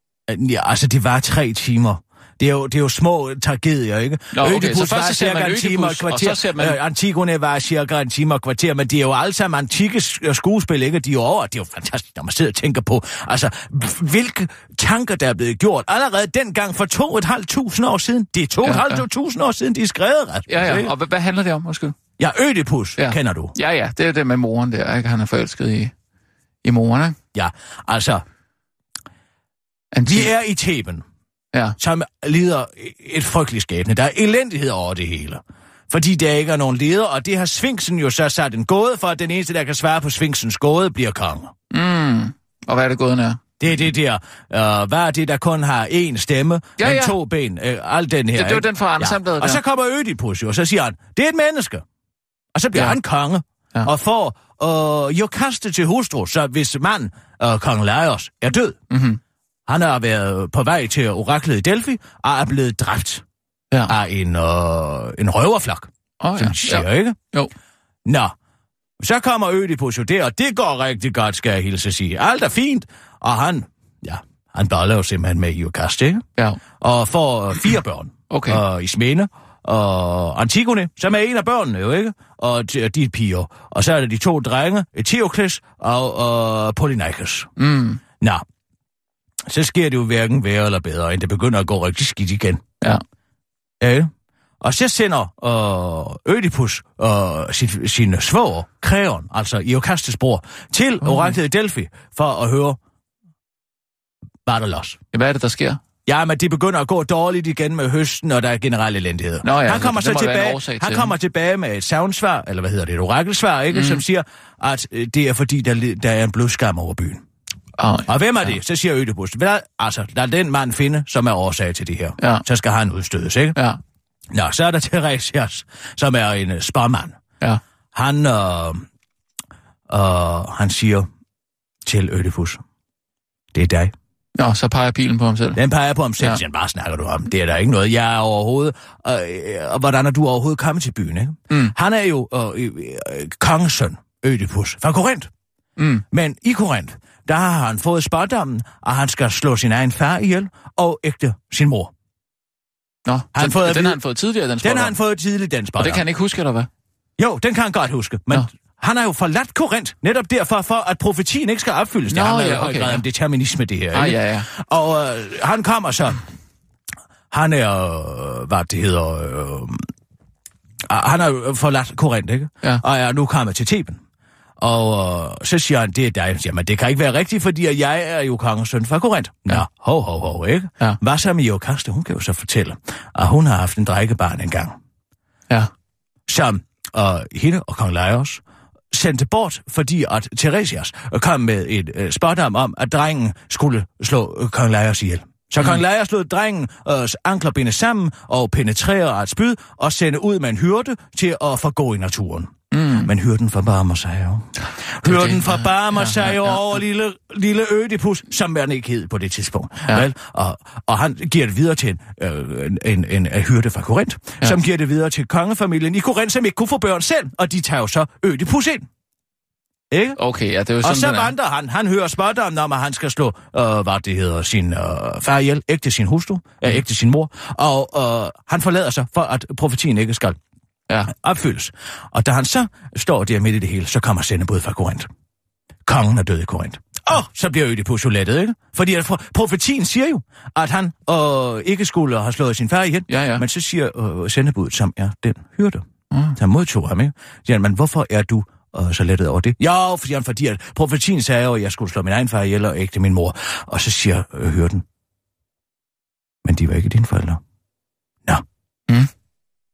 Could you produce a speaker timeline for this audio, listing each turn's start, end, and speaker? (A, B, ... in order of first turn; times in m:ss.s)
0:00.3-0:20.9 A
0:04.3-0:06.8 B
0:18.6-0:19.0 B
0:20.5-0:22.0 B
0:22.2-0:23.5 A
0:23.0-0:25.9 B
0:26.6-0:27.2 B
0:27.3-0:28.2 A
0:29.9-0:30.3 B
0:30.0-0:31.0 A
0:31.8-0:41.5 A
0:41.7-0:43.4 B
0:43.6-0:51.8 A
0:46.8-0:47.2 B
0:48.3-0:49.6 B
0:52.5-0:58.8 A
0:52.7-0:53.0 B
0:58.9-0:59.2 B
0:59.7-1:03.2 A
1:03.9-1:07.2 A
1:06.2-1:07.5 B
1:08.0-1:08.3 A
1:09.0-1:16.2 A
1:16.8-1:27.5 A
1:18.3-1:18.6 B
1:27.6-1:28.0 B
1:29.5-1:32.7 A
1:33.8-1:42.8 A
1:41.0-1:41.3 B
1:44.4-1:45.0 A
1:45.1-1:45.8 B
1:46.0-1:57.2 A
1:49.4-1:51.1 B
1:53.7-1:54.0 B
1:57.8-1:58.5 B
1:58.1-2:03.6 A
2:02.2-2:02.4 B
2:04.3-2:07.2 A
2:07.9-2:08.8 A
2:09.9-2:11.1 A
2:11.8-2:12.6 A
2:13.5-2:13.9 A
2:14.4-2:15.6 B
2:15.6-2:25.3 A
2:25.8-2:26.0 B
2:26.1-2:31.9 A
2:33.0-2:35.0 B
2:33.3-2:34.0 A
2:34.6-2:36.0 A
2:35.8-2:36.7 B
2:37.2-2:46.2 A
2:42.1-2:43.0 B
2:43.9-2:44.5 B
2:47.3-2:49.8 A
2:50.9-2:54.0 A
2:54.6-3:04.8 A
3:06.3-3:38.9 A
3:22.7-3:23.1 B
3:25.0-3:26.6 B
3:39.9-3:40.2 A
3:40.2-3:41.3 B
3:40.8-3:50.4 A
3:51.1-3:55.1 A
3:55.8-4:05.8 A
4:03.1-4:03.4 B
4:06.1-4:06.4 B
4:06.4-4:14.8 A
4:16.4-4:17.4 A